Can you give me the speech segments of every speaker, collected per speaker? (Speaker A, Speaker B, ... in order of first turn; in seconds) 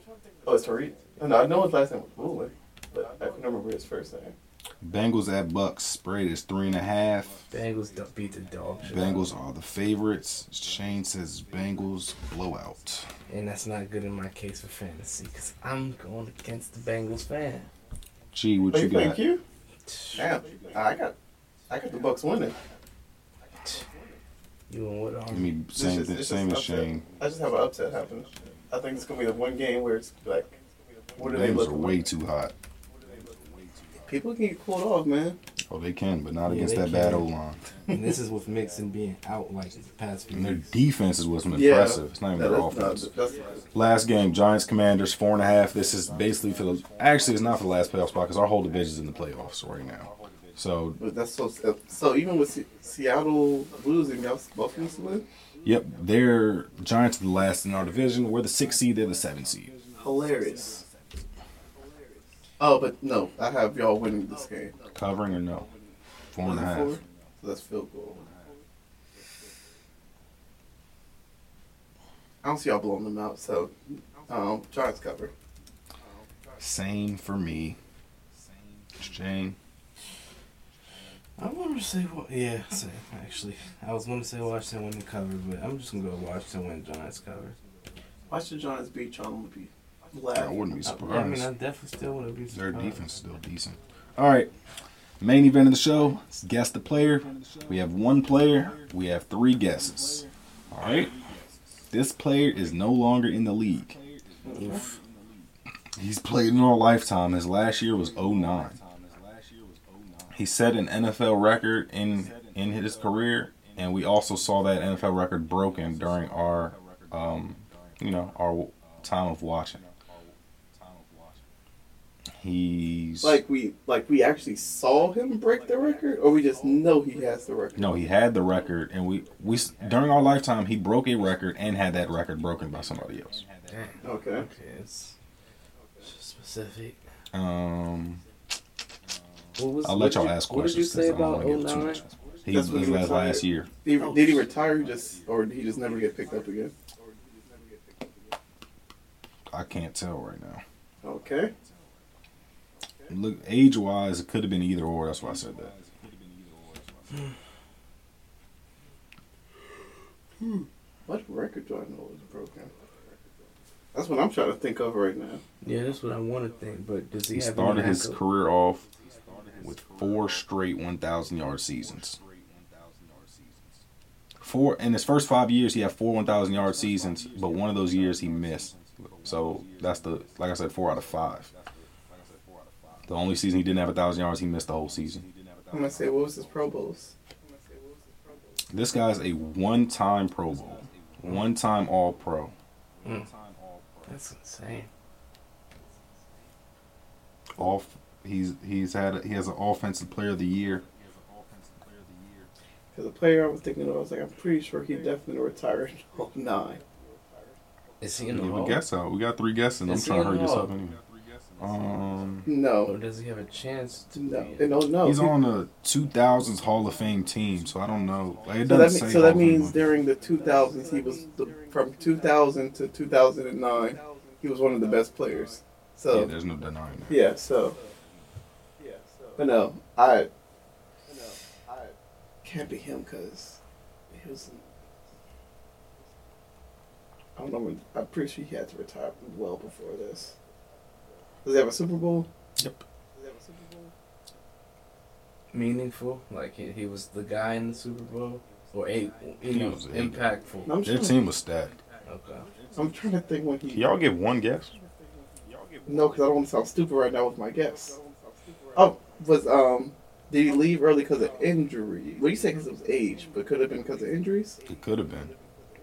Speaker A: 0.4-4.3, 18.7-19.4, 20.1-21.1, 21.7-22.6, 25.7-30.6, 31.2-32.0, 34.0-35.4, 41.5-43.6, 51.0-55.2, 60.0-60.8, 62.6-64.7, 66.4-68.3, 72.4-73.7, 74.3-75.3, 88.3-90.5, 104.4-104.8, 123.2-127.9, 134.0-134.4, 142.5-146.7, 151.0-151.5, 161.1-162.7, 163.9-165.4, 185.7-187.1, 202.9-206.8, 212.4-212.9, 214.1-215.3, 218.6-226.3, 227.1-227.8, 229.3-230.3, 232.4-233.6, 234.1-234.6, 237.3-240.3, 241.4-242.3, 250.7-251.2, 252.7-253.9, 255.8-258.0, 258.7-264.6
Speaker B: 4.8-7.4, 8.8-13.1, 18.3-19.2, 25.3-27.0, 31.2-32.5, 35.7-37.6, 40.3-43.1, 43.7-51.0, 55.6-59.7, 64.9-65.7, 66.3-67.0, 76.6-77.8, 79.0-79.5, 90.3-91.5, 92.5-94.5, 95.2-101.1, 101.9-104.0, 106.0-108.8, 110.3-119.8, 122.4-123.4, 127.8-133.4, 137.3-138.2, 139.8-143.7, 149.5-150.6, 153.1-155.7, 167.3-168.8, 169.6-172.2, 174.4-181.5, 183.1-185.2, 188.7-192.5, 197.5-200.8, 208.3-211.0, 211.6-212.5, 215.0-219.8, 226.1-227.2, 242.6-242.8, 249.4-250.2, 250.8-251.8, 253.7-254.7, 264.7-265.3
Speaker C: 7.5-9.3, 13.3-17.7, 19.9-20.2, 24.7-25.5, 36.4-37.3, 37.9-40.7, 81.4-87.5, 90.8-93.0, 104.5-104.8, 133.7-135.1, 136.0-137.0, 139.6-142.0, 144.0-144.4, 165.6-168.2, 194.1-194.9, 208.0-208.8, 209.8-210.7, 212.8-214.7, 245.5-250.7, 252.1-252.4